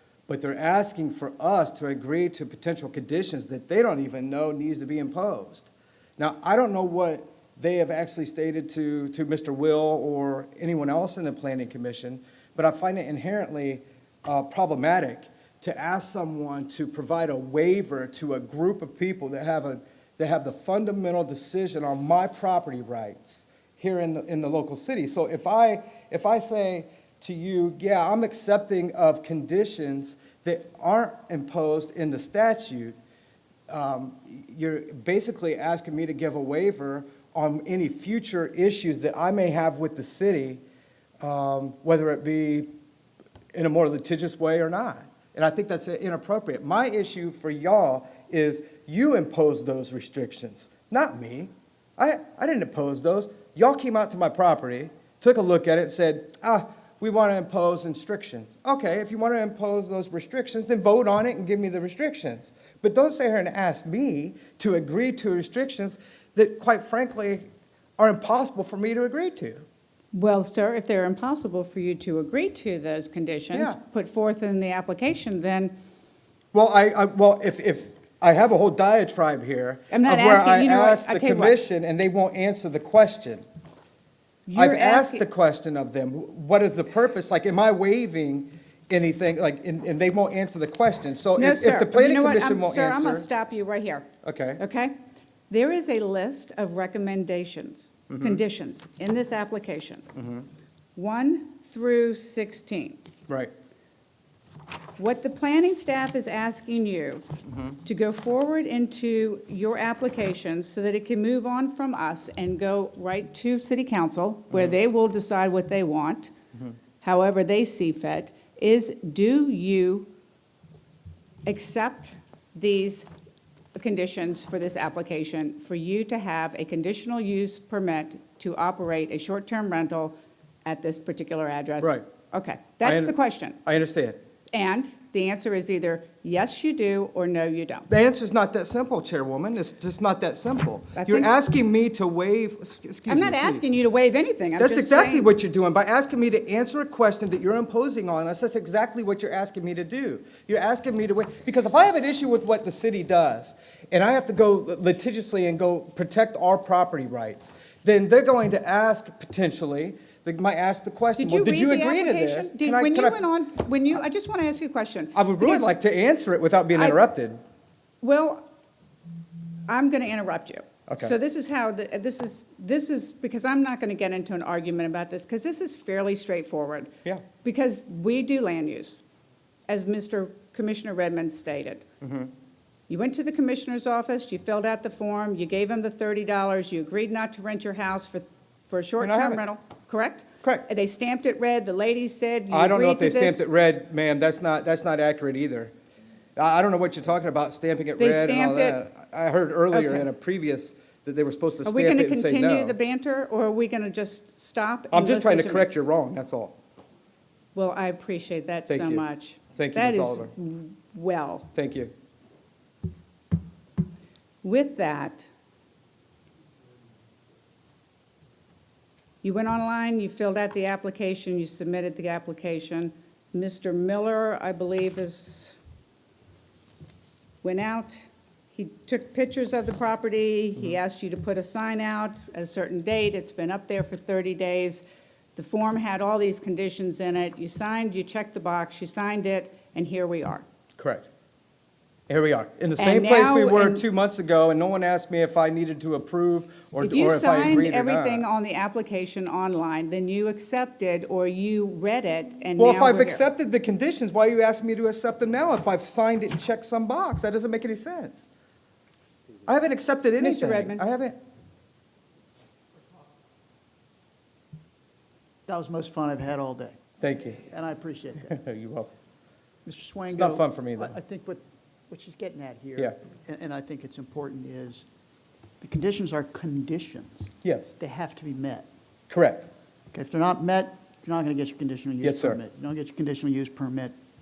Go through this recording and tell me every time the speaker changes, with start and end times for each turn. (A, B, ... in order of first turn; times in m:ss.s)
0:00.3-0:33.0 A
0:33.7-0:40.6 A
0:41.2-0:42.7 A
0:43.5-1:07.5 A
1:08.0-1:09.6 A
1:10.1-1:15.7 B
1:13.5-1:13.8 A
1:16.5-1:23.4 A
1:19.9-1:21.6 B
1:24.5-1:25.2 B
1:24.5-1:33.3 A
1:31.4-1:34.9 B
1:34.2-1:34.6 A
1:35.5-1:40.1 B
1:38.1-1:38.4 A
1:40.2-1:40.4 A
1:41.0-1:43.0 B
1:45.0-1:47.3 B
1:47.5-1:47.8 A
1:47.8-1:56.3 B
1:57.0-2:00.1 B
2:01.4-2:03.1 B
2:03.7-2:13.6 B
2:12.8-2:14.2 A
2:14.5-2:17.9 B
2:17.9-2:23.6 A
2:21.0-2:21.3 B
2:23.1-2:25.3 B
2:24.6-2:43.2 A
2:41.2-2:45.7 B
2:45.1-2:47.4 A
2:48.0-2:48.4 B
2:49.7-2:56.9 B
2:50.9-2:51.1 A
2:57.4-2:59.0 B
2:59.7-3:01.8 B
3:02.0-3:02.3 A
3:02.9-3:13.4 B
3:09.0-3:09.4 A
3:12.5-3:15.7 A
3:16.4-3:22.8 A
3:18.0-3:18.8 B
3:19.7-3:20.1 B
3:21.6-3:25.7 B
3:24.9-3:26.6 A
3:27.5-3:31.5 B
3:28.7-3:29.0 A
3:29.6-3:30.3 A
3:31.5-3:31.9 A
3:34.4-3:35.3 B
3:39.2-3:45.6 B
3:47.4-3:54.8 B
3:55.4-4:00.4 B
4:00.8-4:01.1 A
4:02.1-4:08.2 A
4:02.8-4:03.8 B
4:06.8-4:13.2 B
4:12.6-4:18.3 A
4:19.5-4:21.2 A
4:20.2-4:20.8 B
4:25.4-4:26.8 C
4:27.0-4:27.4 A
4:27.4-4:28.4 C
4:28.3-4:28.9 A
4:29.6-4:34.8 C
4:30.1-4:30.9 A
4:35.6-4:38.7 C
4:37.4-4:37.7 A
4:39.1-4:39.5 A
4:39.9-4:43.9 C
4:42.0-4:42.4 A